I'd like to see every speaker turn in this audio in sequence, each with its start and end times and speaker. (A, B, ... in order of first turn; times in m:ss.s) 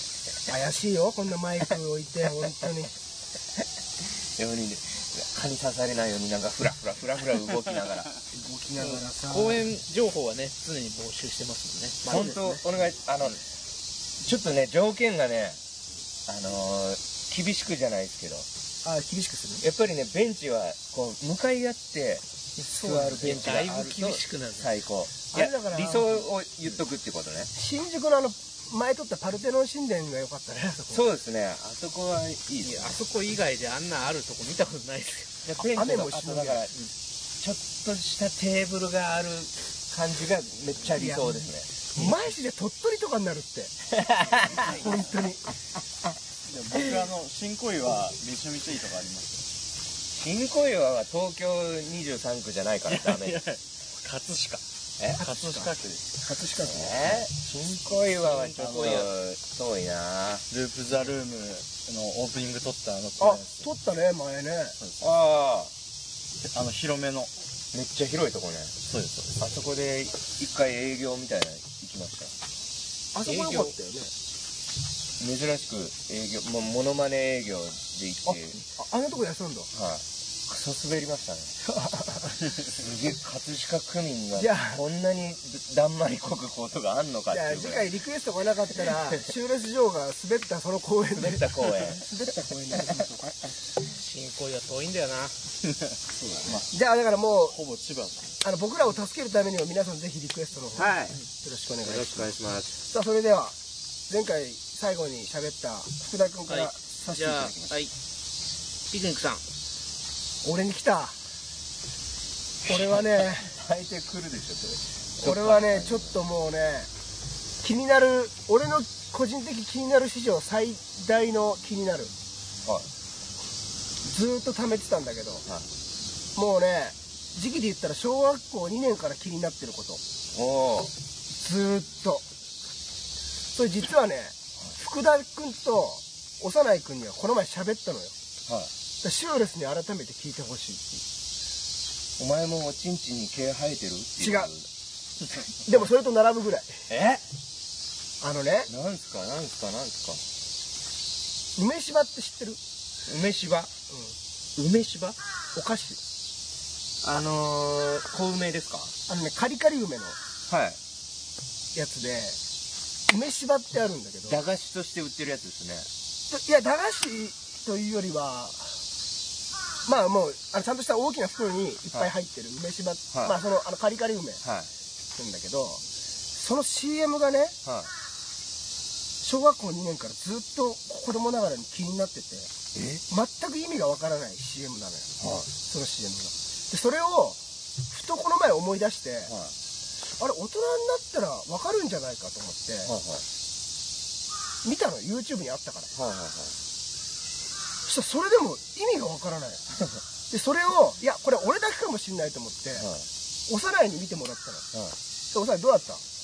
0:00.4-0:02.9 A
0:04.4-0:08.1 B
0:08.3-0:09.6 A
0:08.8-0:12.6 C
0:12.1-0:12.4 A
0:12.1-0:13.4 B
0:14.2-0:15.6 B
0:16.3-0:18.5 B
0:18.8-0:19.6 A
0:19.6-0:27.5 B
0:22.6-0:24.7 C
0:25.3-0:26.2 A
0:27.5-0:31.0 A
0:30.9-0:33.0 B
0:32.6-0:35.4 C
0:35.4-0:36.7 B
0:35.7-0:36.7 A
0:37.4-0:41.7 B
0:40.9-0:41.4 A
0:41.9-0:43.7 A
0:43.9-0:44.8 B
0:44.6-0:44.8 C
0:44.6-0:45.4 A
0:46.5-0:49.5 D
0:50.1-0:53.4 B
0:52.9-0:54.6 D
0:55.2-0:57.2 A
0:55.2-0:56.0 D
0:56.6-1:00.4 B
0:58.2-0:59.1 D
0:58.6-0:59.1 C
1:00.5-1:03.7 D
1:03.2-1:04.8 A
1:05.0-1:05.7 B
1:06.4-1:07.3 D
1:07.7-1:08.8 B
1:08.9-1:09.4 D
1:09.4-1:12.3 B
1:13.1-1:14.1 A
1:13.2-1:13.7 C
1:15.2-1:18.6 B
1:18.2-1:19.7 A
1:19.7-1:21.5 B
1:21.6-1:22.4 A
1:22.8-1:27.9 B
1:24.3-1:24.8 A
1:27.3-1:33.3 A
1:31.1-1:32.0 B
1:33.8-1:35.3 C
1:36.2-1:36.6 B
1:36.3-1:37.6 A
1:37.5-1:38.3 D
1:38.4-1:42.3 A
1:40.7-1:41.2 B
1:41.8-1:42.7 B
1:42.8-1:43.5 A
1:44.1-1:47.6 A
1:46.5-1:47.9 C
1:48.9-1:49.4 C
1:50.4-1:51.1 A
1:52.6-1:53.5 A
1:53.3-1:56.2 B
1:55.2-1:56.9 A
1:57.6-2:02.1 A
2:04.0-2:05.4 A
2:06.3-2:10.0 A
2:10.3-2:10.9 B
2:11.3-2:12.2 A
2:13.5-2:18.1 A
2:19.0-2:21.0 A
2:22.2-2:24.6 B
2:24.2-2:24.5 A
2:25.6-2:26.7 A
2:26.9-2:27.2 B
2:28.2-2:28.7 A
2:28.7-2:30.2 B
2:31.6-2:32.6 A
2:33.0-2:33.7 B
2:33.9-2:34.1 A
2:34.6-2:35.2 B
2:35.5-2:36.0 A
2:37.0-2:38.9 B
2:39.1-2:40.2 A
2:40.5-2:40.8 B
2:41.7-2:42.4 A
2:43.1-2:44.4 A
2:44.2-2:45.9 B
2:46.3-2:48.7 A
2:49.8-2:54.4 A
2:53.1-2:53.4 B
2:54.4-2:54.7 B
2:55.2-2:55.8 A
2:56.3-2:57.6 A
2:57.6-2:57.9 B
2:59.2-3:02.5 A
3:02.7-3:03.0 B
3:03.1-3:07.4 A
3:05.2-3:05.5 B
3:07.9-3:09.3 A
3:09.3-3:09.5 B
3:10.2-3:12.9 A
3:12.8-3:13.2 B
3:14.6-3:15.9 A
3:15.9-3:16.6 B
3:17.8-3:19.6 A
3:20.3-3:22.9 A
3:22.8-3:23.0 B
3:23.5-3:24.6 A
3:25.3-3:26.0 A